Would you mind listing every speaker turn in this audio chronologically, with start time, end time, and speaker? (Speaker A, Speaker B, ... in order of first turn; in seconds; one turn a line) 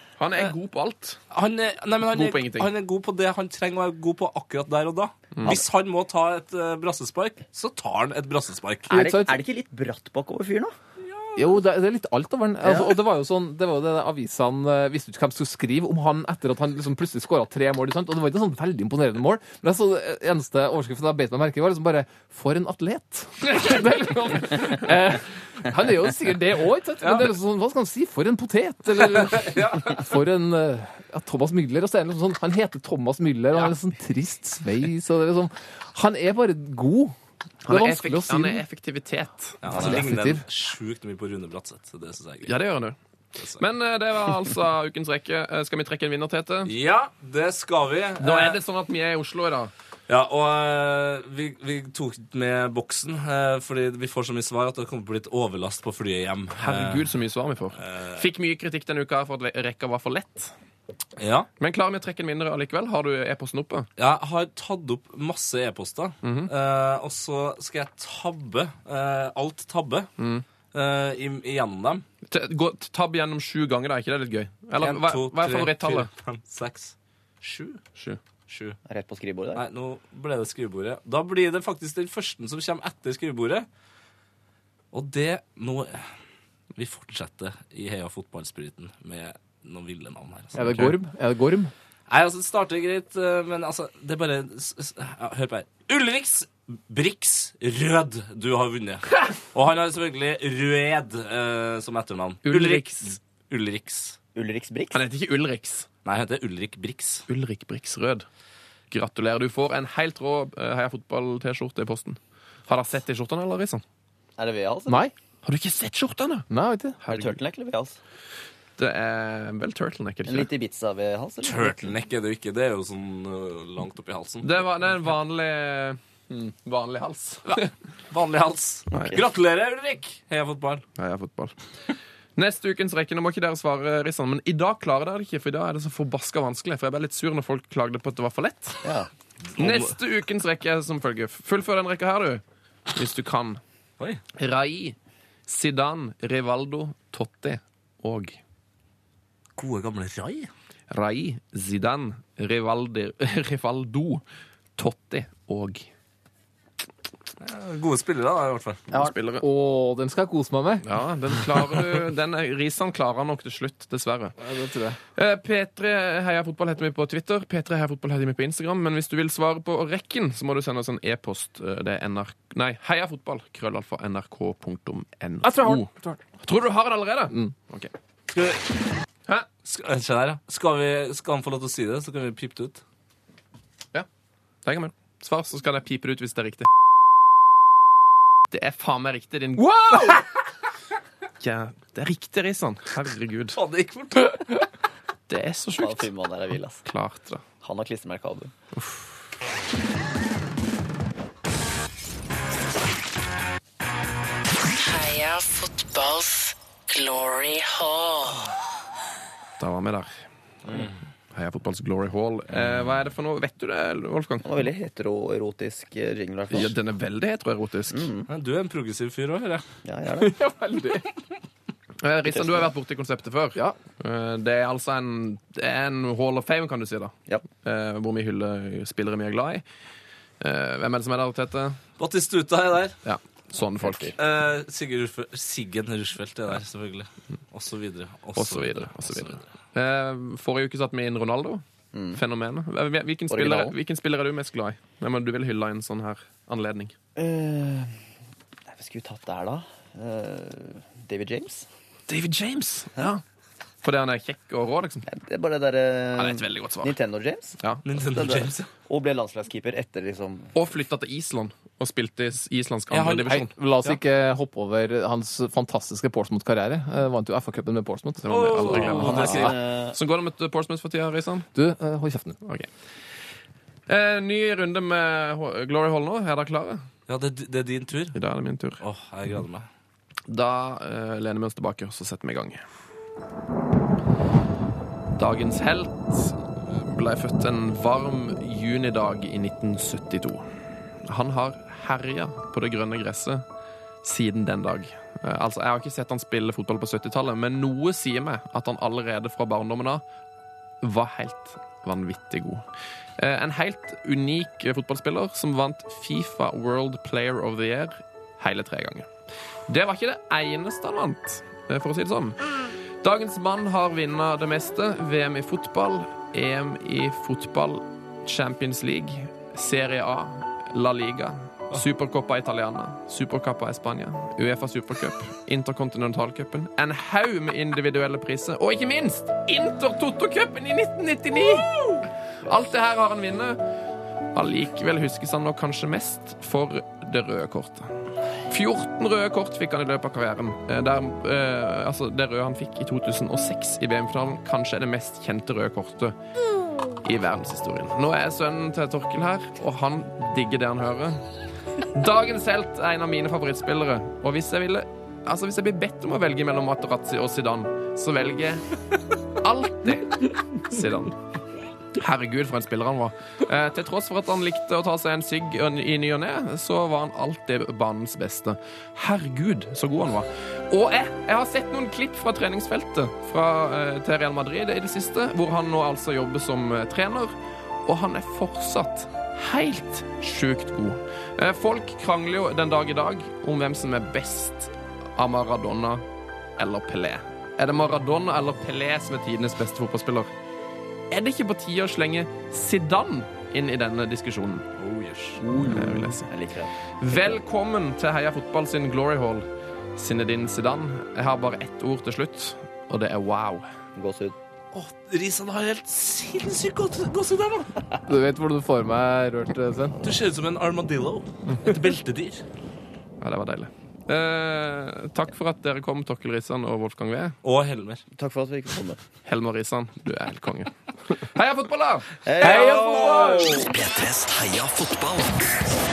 Speaker A: 0.2-1.2
Speaker B: 1.3-8.9
Speaker A: 2.0-2.7
Speaker C: 8.9-9.4
Speaker D: 8.9-10.7
Speaker B: 11.0-11.4
Speaker C: 11.3-37.1
Speaker D: 12.6-12.9
Speaker B: 27.0-27.3
Speaker B: 28.9-30.1
Speaker A: 37.6-39.6
Speaker C: 37.7-38.6
Speaker B: 39.6-42.6
Speaker D: 39.7-40.0
Speaker C: 39.7-40.4
Speaker A: 42.5-43.0
Speaker A: 43.5-46.7
Speaker B: 46.6-48.6
Speaker A: 48.2-49.7
Speaker B: 50.1-57.1
Speaker A: 56.5-60.5
Speaker B: 57.8-58.2
Speaker B: 61.2-61.5
Speaker A: 61.6-63.9
Speaker B: 64.0-70.1
Speaker A: 66.2-66.5
Speaker A: 70.2-70.4
Speaker B: 70.7-72.0
Speaker A: 72.3-76.1
Speaker B: 74.7-77.8
Speaker B: 78.5-78.8
Speaker D: 78.9-79.6
Speaker B: 79.5-83.7
Speaker B: 84.9-86.1
Speaker B: 86.7-90.9
Speaker C: 90.5-91.7
Speaker B: 92.1-104.2
Speaker A: 102.4-103.2
Speaker D: 104.3-105.0
Speaker A: 104.9-105.9
Speaker B: 106.0-107.2
Speaker A: 107.3-108.2
Speaker A: 108.9-113.8
Speaker D: 114.4-115.0
Speaker C: 114.9-115.1
Speaker A: 115.4-116.5
Speaker C: 116.5-117.0
Speaker A: 117.0-117.4
Speaker D: 117.1-118.0
Speaker A: 118.8-120.5
Speaker D: 120.2-121.9
Speaker B: 121.4-124.6
Speaker A: 124.4-127.7
Speaker B: 127.5-130.8
Speaker A: 128.9-129.2
Speaker D: 128.9-129.2
Speaker A: 131.0-131.5
Speaker A: 132.3-138.8
Speaker D: 138.8-139.1
Speaker B: 139.4-140.0
Speaker A: 139.6-143.6
Speaker A: 144.3-144.9
Speaker A: 145.5-148.4
Speaker B: 149.6-150.5
Speaker A: 150.9-154.2
Speaker A: 154.8-155.9
Speaker B: 157.4-158.9
Speaker A: 158.9-159.4
Speaker C: 159.4-160.8
Speaker A: 160.8-164.3
Speaker C: 164.4-165.0
Speaker A: 165.2-175.9
Speaker C: 175.4-176.2
Speaker A: 176.4-177.9
Speaker B: 178.3-178.7
Speaker B: 179.6-182.8
Speaker A: 184.6-186.7
Speaker A: 188.5-190.2
Speaker C: 189.6-190.2
Speaker A: 191.4-193.6
Speaker B: 193.5-194.7
Speaker A: 195.3-196.1
Speaker D: 195.8-196.8
Speaker A: 196.8-197.4
Speaker D: 197.6-198.5
Speaker A: 198.7-199.1
Speaker E: 204.8-208.4
Speaker A: 209.6-210.1
Speaker A: 210.7-214.5
Speaker D: 214.4-216.7
Speaker A: 216.5-218.1
Speaker D: 217.9-218.3
Speaker B: 218.3-219.6
Speaker D: 219.8-220.3
Speaker C: 220.2-221.1
Speaker A: 222.0-229.6
Speaker D: 222.2-222.7
Speaker A: 230.4-231.8
Speaker B: 232.0-233.0
Speaker A: 233.0-234.1
Speaker D: 233.8-234.1
Speaker B: 234.2-239.5
Speaker A: 238.3-241.6
Speaker D: 241.9-242.2
Speaker A: 242.1-246.9
Speaker D: 243.3-243.7
Speaker D: 247.2-247.9
Speaker D: 248.7-251.7
Speaker A: 252.1-253.2
Speaker A: 253.8-255.0
Speaker D: 255.1-257.6
Speaker A: 256.1-256.9
Speaker B: 257.8-258.7
Speaker D: 258.1-260.6
Speaker A: 260.5-263.5
Speaker B: 262.9-263.9
Speaker C: 263.3-269.4
Speaker A: 268.2-271.5
Speaker B: 268.2-269.5
Speaker D: 268.6-270.0
Speaker C: 271.5-272.4
Speaker A: 272.4-272.7
Speaker A: 273.9-276.9
Speaker B: 277.1-278.2
Speaker A: 278.1-278.8
Speaker B: 278.8-279.7
Speaker A: 280.3-282.6
Speaker A: 285.1-290.4
Speaker A: 291.1-293.4
Speaker A: 294.0-300.0
Speaker A: 300.8-302.6
Speaker A: 303.2-309.1
Speaker A: 309.7-312.4
Speaker A: 313.0-333.6
Speaker A: 334.3-337.9
Speaker A: 338.5-346.1
Speaker A: 347.0-351.2
Speaker A: 351.9-358.6
Speaker A: 359.4-361.2
Speaker A: 361.9-377.3
Speaker A: 377.8-386.0
Speaker A: 386.6-390.3
Speaker A: 391.1-394.6
Speaker B: 394.8-395.4
Speaker D: 395.4-397.4
Speaker A: 395.5-396.3
Speaker A: 397.0-403.6
Speaker D: 403.9-404.4
Speaker B: 404.7-407.7
Speaker C: 408.1-410.0
Speaker B: 410.0-412.4
Speaker A: 413.2-417.4
Speaker B: 417.4-418.0
Speaker D: 418.1-419.0
Speaker A: 419.2-422.3
Speaker D: 422.2-423.7
Speaker C: 422.4-423.6
Speaker F: 423.6-425.7